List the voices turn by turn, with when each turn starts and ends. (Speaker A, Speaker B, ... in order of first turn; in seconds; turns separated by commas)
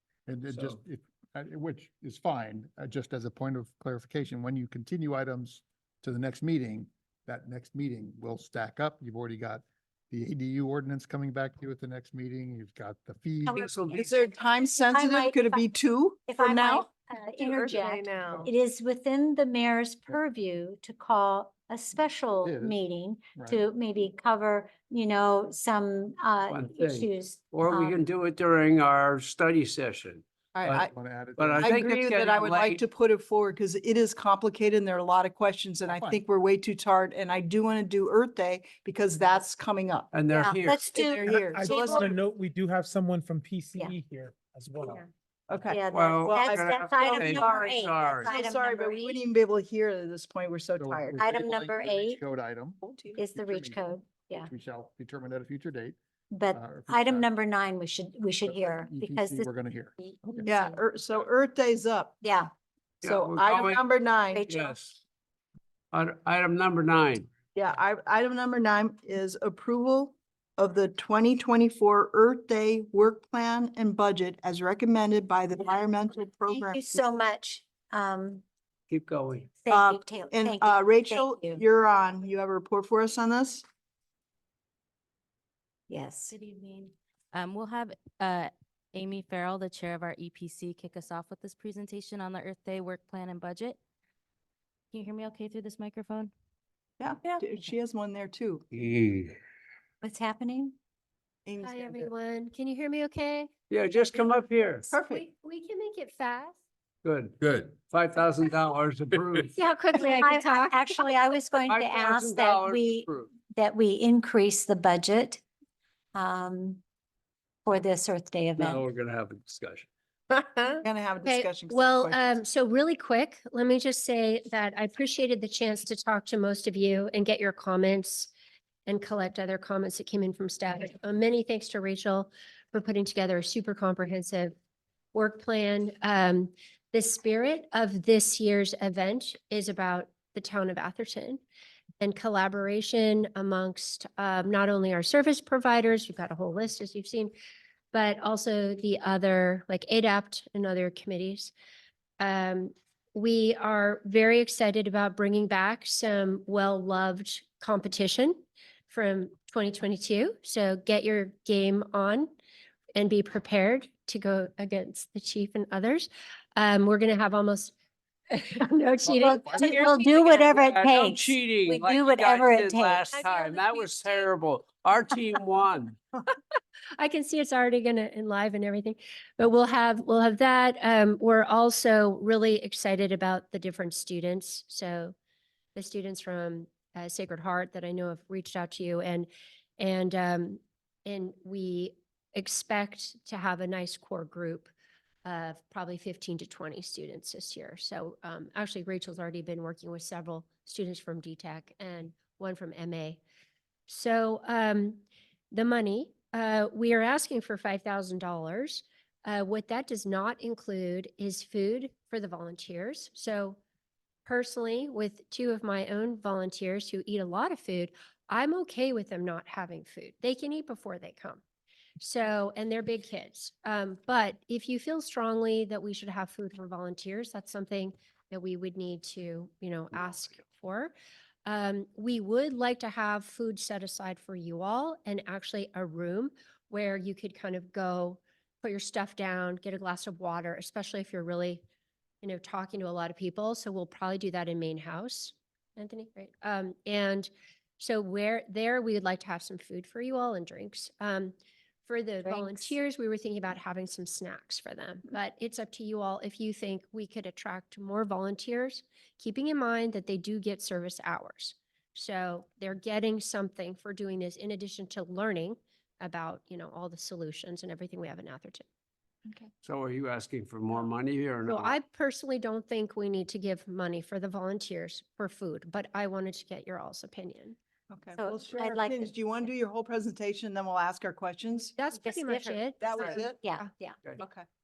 Speaker A: 0.3-13.9, Speaker B: 0.5-0.8, Speaker C: 13.5-15.7, Speaker B: 13.5-14.1, Speaker D: 13.9-16.9, Speaker C: 16.3-28.0, Speaker D: 17.7-18.4, Speaker A: 22.4-22.8, Speaker B: 26.5-32.8, Speaker D: 30.6-30.9, Speaker A: 30.8-31.9, Speaker D: 31.6-40.2, Speaker A: 35.9-36.2, Speaker B: 40.1-41.0, Speaker C: 40.3-42.1, Speaker D: 40.8-42.1, Speaker E: 41.3-45.0, Speaker D: 45.5-51.2, Speaker C: 45.6-49.2, Speaker B: 45.9-48.3, Speaker A: 50.8-53.8, Speaker C: 51.2-52.2, Speaker D: 52.8-53.2, Speaker C: 53.1-54.5, Speaker A: 54.5-56.0, Speaker C: 56.3-59.5, Speaker A: 56.5-57.3, Speaker A: 58.5-60.5, Speaker C: 60.0-60.8, Speaker D: 60.5-62.2, Speaker C: 62.2-62.5, Speaker B: 63.0-63.8, Speaker D: 63.0-64.5, Speaker C: 64.3-64.8, Speaker B: 64.5-65.0, Speaker B: 65.9-67.3, Speaker D: 67.5-76.8, Speaker C: 76.5-78.4, Speaker B: 78.9-79.5, Speaker C: 79.6-81.6, Speaker D: 79.7-83.6, Speaker C: 85.9-86.3, Speaker F: 86.3-93.8, Speaker F: 94.9-96.3, Speaker D: 97.0-98.6, Speaker B: 98.7-99.4, Speaker C: 100.0-100.7, Speaker D: 101.5-102.1, Speaker G: 101.6-103.5, Speaker B: 103.7-104.9, Speaker D: 104.9-105.3, Speaker G: 104.9-106.6, Speaker B: 107.0-109.5, Speaker G: 109.6-111.0, Speaker C: 110.0-115.4, Speaker B: 111.7-113.3, Speaker C: 116.2-116.8, Speaker C: 117.7-118.8, Speaker B: 118.6-119.9, Speaker G: 120.3-128.3, Speaker D: 120.8-122.4, Speaker G: 128.9-134.5, Speaker G: 135.1-141.4, Speaker G: 142.0-147.3, Speaker G: 147.9-151.5, Speaker G: 152.2-162.3, Speaker G: 163.0-167.7, Speaker G: 168.3-170.3, Speaker A: 169.0-169.8, Speaker C: 169.1-173.1, Speaker B: 170.0-176.0, Speaker G: 173.1-174.3, Speaker G: 177.0-185.1, Speaker G: 185.8-194.7, Speaker G: 195.2-203.2, Speaker G: 203.9-213.6, Speaker G: 214.2-221.4, Speaker G: 222.0-230.9, Speaker G: 231.5-241.6, Speaker G: 242.2-251.3, Speaker G: 251.9-268.6, Speaker C: 252.2-252.8, Speaker D: 269.2-269.5, Speaker B: 269.6-271.8, Speaker G: 271.4-277.6, Speaker D: 277.9-281.8, Speaker C: 278.1-279.1, Speaker G: 281.8-283.7, Speaker C: 281.9-284.1, Speaker D: 282.8-283.4, Speaker D: 284.2-284.4